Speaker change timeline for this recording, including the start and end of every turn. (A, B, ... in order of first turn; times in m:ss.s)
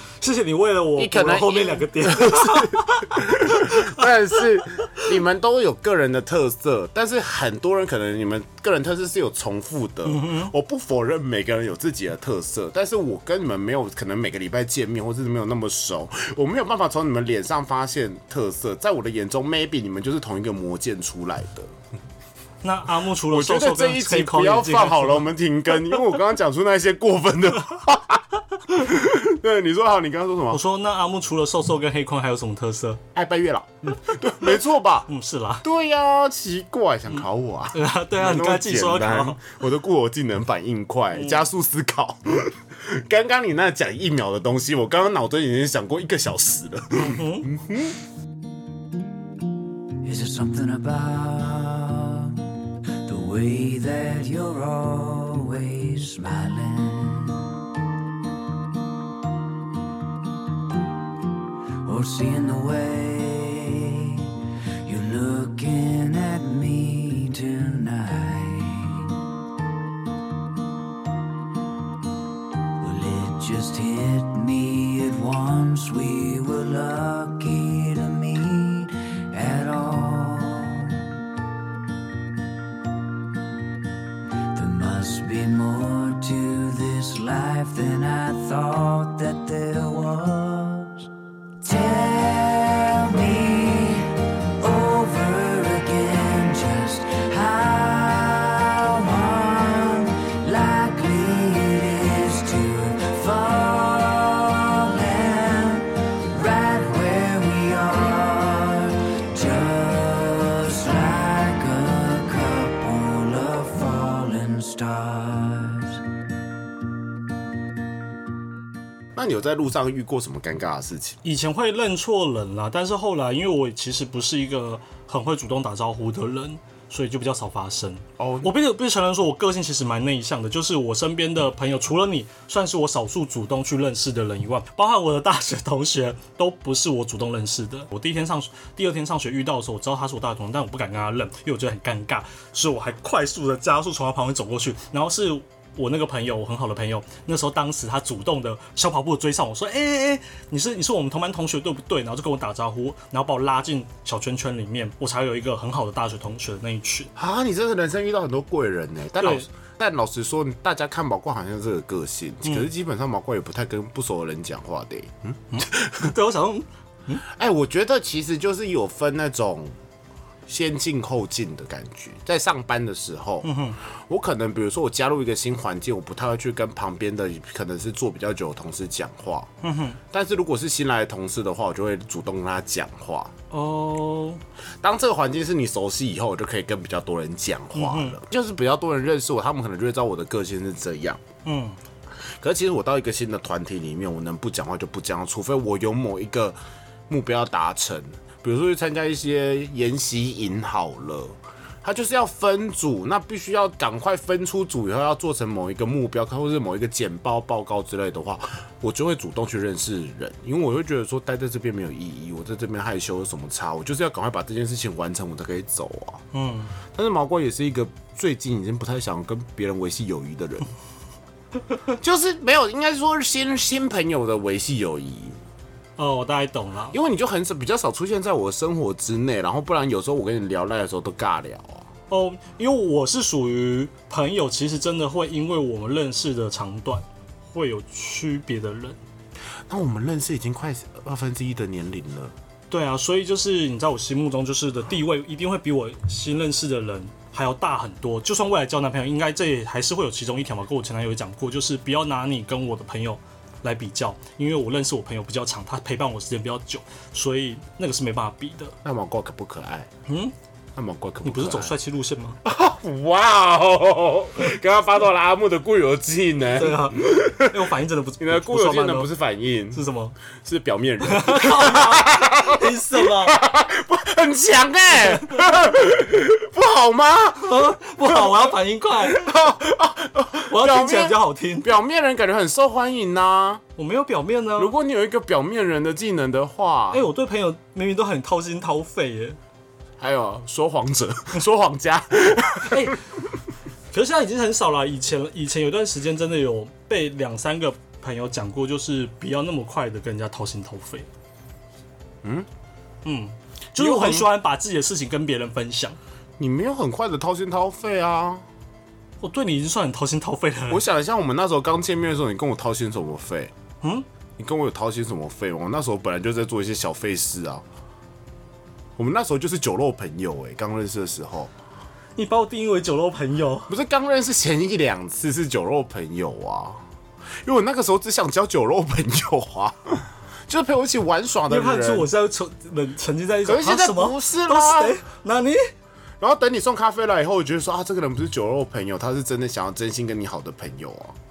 0:00.2-0:04.1 A
0:01.0-0:21.7 B
0:10.0-0:10.5 A
0:22.6-0:25.3 A
0:23.3-0:30.6 B
0:30.5-0:33.0 A
0:33.1-0:35.1 B
0:35.1-0:35.6 A
0:35.6-0:48.0 B
0:37.7-0:39.4 A
0:41.1-0:41.4 A
0:47.0-0:47.5 A
0:50.0-0:52.4 C
0:53.0-0:57.5 C
1:01.8-1:09.2 C
1:12.8-1:21.1 C
1:24.5-1:31.1 C
1:31.6-1:56.0 C
1:59.2-2:01.2 B
2:01.2-2:37.1 A
2:08.2-2:08.5 B
2:37.2-2:46.1 B
2:39.2-2:39.5 A
2:45.5-2:47.2 A
2:47.3-2:49.7 B
2:50.5-2:59.5 B
2:53.4-2:53.8 A
2:59.6-3:00.0 A
3:00.1-3:03.3 B
3:03.5-3:04.4 A
3:04.8-3:11.2 B
3:07.7-3:08.2 A
3:11.4-3:11.8 A
3:12.4-3:36.2 B
3:36.3-3:36.8 A
3:36.9-3:40.7 B
3:42.0-3:45.4 B
3:46.0-3:47.0 A
3:46.9-3:51.9 B
3:52.1-3:59.0 A
3:59.7-4:02.4 B
4:02.7-4:18.8 A
4:18.8-4:19.9 B
4:20.1-4:20.3 A
4:20.8-4:21.8 B
4:21.2-4:22.4 A
4:22.4-4:27.7 B
4:26.5-4:29.1 A
4:28.2-4:29.8 B
4:29.7-4:30.2 A
4:30.4-4:43.6 B
4:31.0-4:33.4 A
4:35.0-4:35.4 A
4:37.4-4:39.4 A
4:40.5-4:41.7 A
4:43.8-4:44.7 A
4:44.6-4:47.0 B
4:46.9-4:49.4 A
4:50.0-4:53.0 B
4:52.7-4:53.0 A
4:53.9-5:01.1 A
5:02.2-5:02.5 B
5:03.0-5:06.0 A
5:03.8-5:04.3 B
5:06.4-5:08.4 B
5:09.2-5:10.8 A
5:10.7-5:13.5 B
5:14.4-5:17.6 B
5:19.0-5:21.5 B
5:22.2-5:23.7 A
5:23.7-5:26.8 B
5:27.4-5:32.1 B
5:31.5-5:35.7 A
5:33.4-5:35.0 B
5:36.2-5:41.2 B